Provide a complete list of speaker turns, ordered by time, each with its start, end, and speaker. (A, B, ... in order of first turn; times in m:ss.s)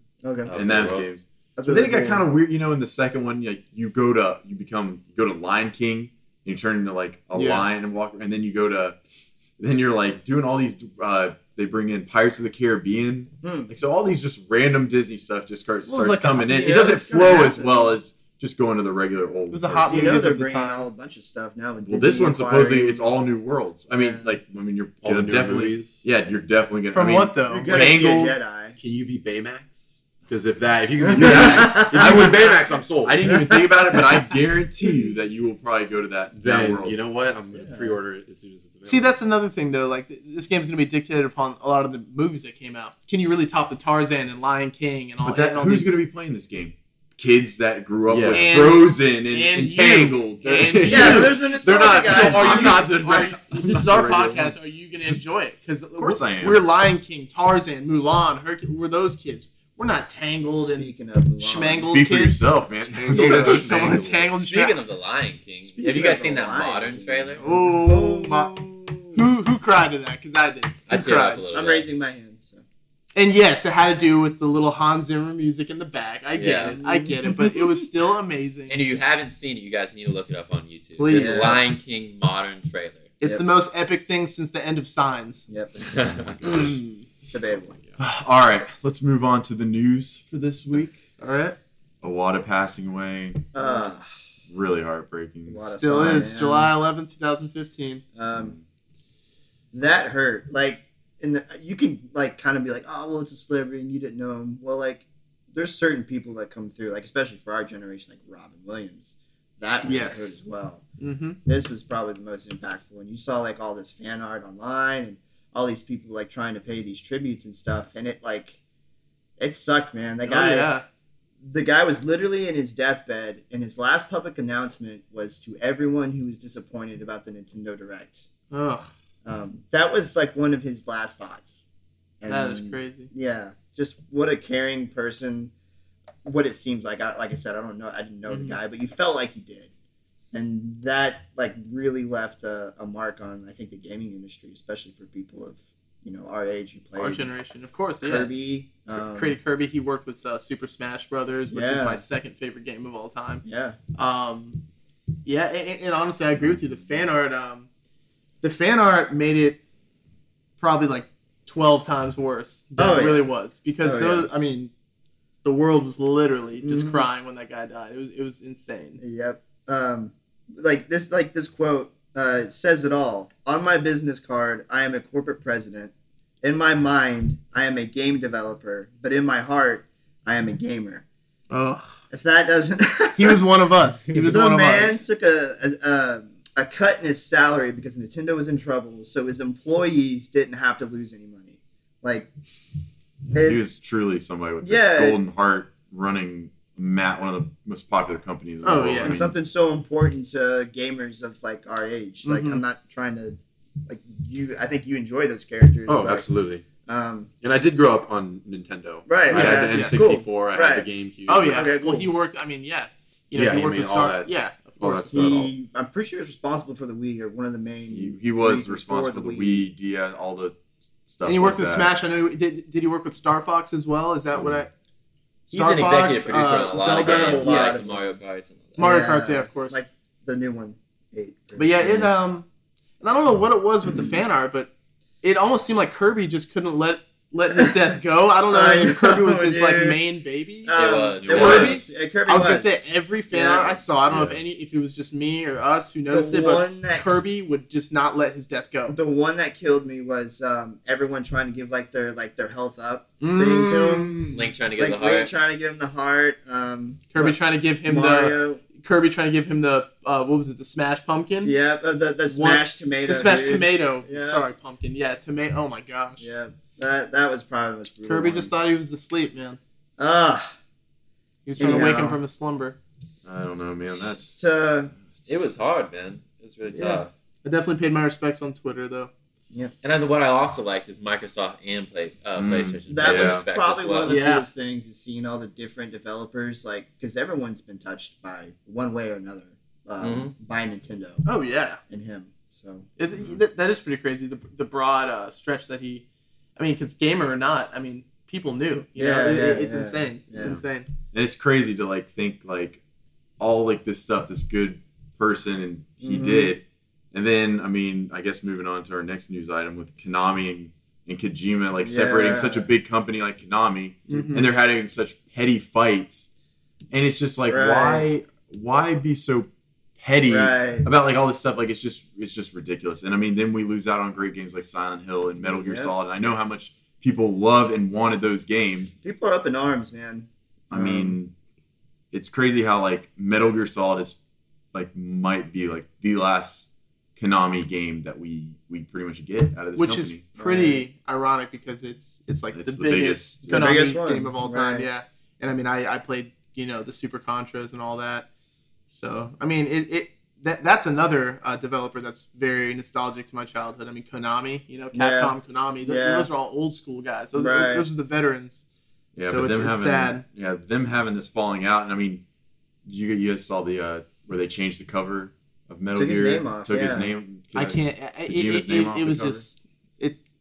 0:00.2-0:00.5 A
0:00.4-0:01.1 B
0:00.5-0:09.0 C
0:01.6-0:02.2 A
0:07.3-0:07.7 D
0:09.6-0:20.2 C
0:13.4-0:13.7 A
0:15.9-0:17.3 D
0:16.6-0:18.0 A
0:19.5-0:20.9 D
0:19.9-0:23.0 A
0:21.8-0:28.4 C
0:23.9-0:24.4 A
0:25.0-0:26.0 E
0:26.9-0:27.8 D
0:27.5-0:28.8 A
0:28.8-0:33.5 E
0:31.0-0:32.4 A
0:31.2-0:37.0 C
0:33.3-0:34.1 A
0:36.4-0:39.2 E
0:37.5-0:38.0 A
0:38.9-0:46.0 D
0:45.2-0:51.2 C
0:48.1-0:48.6 E
0:48.3-1:02.5 D
0:50.4-0:51.5 E
0:50.9-0:52.8 A
0:51.7-0:54.6 C
0:56.0-0:56.6 C
1:00.6-1:02.0 A
1:01.7-1:04.1 C
1:02.9-1:04.3 E
1:03.1-1:04.8 D
1:04.5-1:07.5 B
1:05.8-1:09.2 A
1:07.4-1:08.5 D
1:09.1-1:11.4 D
1:10.9-1:11.8 B
1:11.5-1:12.6 A
1:13.2-1:18.8 D
1:16.3-1:16.8 B
1:16.7-1:17.8 A
1:18.7-1:23.1 B
1:21.0-1:21.6 D
1:21.1-1:21.6 A
1:23.2-1:25.5 D
1:25.5-1:25.8 A
1:25.8-1:26.4 B
1:25.9-1:26.8 C
1:26.5-1:27.0 D
1:27.3-1:27.8 A
1:28.0-1:31.0 C
1:31.2-1:31.6 D
1:32.0-1:33.6 C
1:33.5-1:34.1 A
1:34.1-1:36.2 C
1:35.5-1:36.7 A
1:35.7-1:38.0 D
1:38.2-1:38.5 A
1:38.3-1:38.6 C
1:39.7-1:50.8 A
1:49.8-1:50.4 D
1:51.0-1:51.4 D
1:51.4-1:58.6 A
1:59.4-2:00.7 A
2:00.2-2:00.8 D
2:01.4-2:08.3 A
2:08.5-2:08.9 D
2:09.2-2:11.6 A
2:12.2-2:15.5 A
2:12.3-2:13.1 D
2:16.2-2:19.7 A
2:18.3-2:18.6 D
2:20.3-2:27.3 A
2:27.0-2:28.3 D
2:28.0-2:29.4 A
2:29.0-2:33.4 D
2:31.5-2:32.0 A
2:33.4-2:33.8 A
2:34.0-2:34.6 D
2:35.2-2:37.7 D
2:38.4-2:39.6 D
2:40.6-2:44.7 D
2:42.8-2:43.2 A
2:43.8-2:44.3 A
2:45.4-2:49.0 D
2:46.6-2:47.1 A
2:49.0-3:01.0 A
3:01.5-3:02.0 D
3:02.1-3:03.4 A
3:03.2-3:05.0 D
3:04.1-3:12.3 A
3:13.3-3:13.6 A
3:13.4-3:19.3 C
3:14.6-3:15.2 A
3:18.6-3:19.2 D
3:19.0-3:26.3 A
3:22.2-3:22.6 D
3:25.9-3:26.6 E
3:26.8-3:27.3 A
3:27.4-3:31.7 E
3:29.1-3:30.9 A
3:29.3-3:30.0 D
3:31.3-3:35.5 D
3:31.5-3:32.1 A
3:33.3-3:35.5 E
3:35.1-3:39.7 A
3:37.9-3:41.9 C
3:41.3-3:44.7 D
3:45.5-3:48.0 D
3:45.5-3:48.8 B
3:47.0-3:48.0 A
3:48.8-3:49.8 D
3:48.8-3:51.8 A
3:51.6-3:52.5 D
3:51.8-3:52.1 C
3:53.0-3:54.7 D
3:53.9-3:54.2 A
3:55.2-4:09.0 D
3:58.5-4:00.0 A
4:00.6-4:03.8 A
4:00.8-4:01.9 B
4:01.2-4:01.8 C
4:04.1-4:04.4 C
4:06.1-4:07.2 A
4:08.9-4:14.2 A
4:13.2-4:14.4 D
4:14.3-4:15.3 B
4:14.8-4:18.6 A
4:17.1-4:21.6 D
4:21.4-4:24.5 A
4:22.3-4:26.3 D
4:26.2-4:28.5 A
4:28.1-4:29.6 D
4:30.0-4:30.5 A
4:31.5-4:32.8 D
4:31.6-4:32.2 A
4:33.2-4:35.3 C
4:34.3-4:34.9 A
4:35.3-4:37.1 B
4:36.7-4:39.1 D
4:39.8-4:44.2 B
4:42.4-4:43.4 C
4:42.9-4:51.2 A
4:44.0-4:44.5 D
4:50.0-4:50.3 B
4:51.2-4:51.8 D
4:51.9-4:52.9 A
4:53.0-4:56.0 D
4:53.1-4:53.4 C
4:56.6-5:00.9 D
4:59.0-5:00.6 A
5:00.4-5:00.6 C
5:01.1-5:02.8 C
5:03.4-5:16.3 C
5:06.0-5:06.5 A
5:11.8-5:12.7 A
5:14.1-5:14.5 D
5:16.9-5:29.0 C
5:17.5-5:18.1 A
5:20.3-5:20.9 A
5:25.4-5:25.9 A
5:29.0-5:31.2 A
5:30.7-5:31.3 C
5:32.1-5:34.2 C
5:34.7-5:40.2 C
5:39.8-5:48.3 D
5:40.4-5:40.9 A
5:42.5-5:43.6 C
5:43.4-5:44.9 A
5:48.9-5:58.6 D
5:54.9-5:56.3 A
5:57.4-5:57.9 A
5:59.2-6:02.2 C
5:59.3-6:00.2 D
6:02.9-6:09.5 C
6:06.0-6:07.1 A
6:07.6-6:10.2 D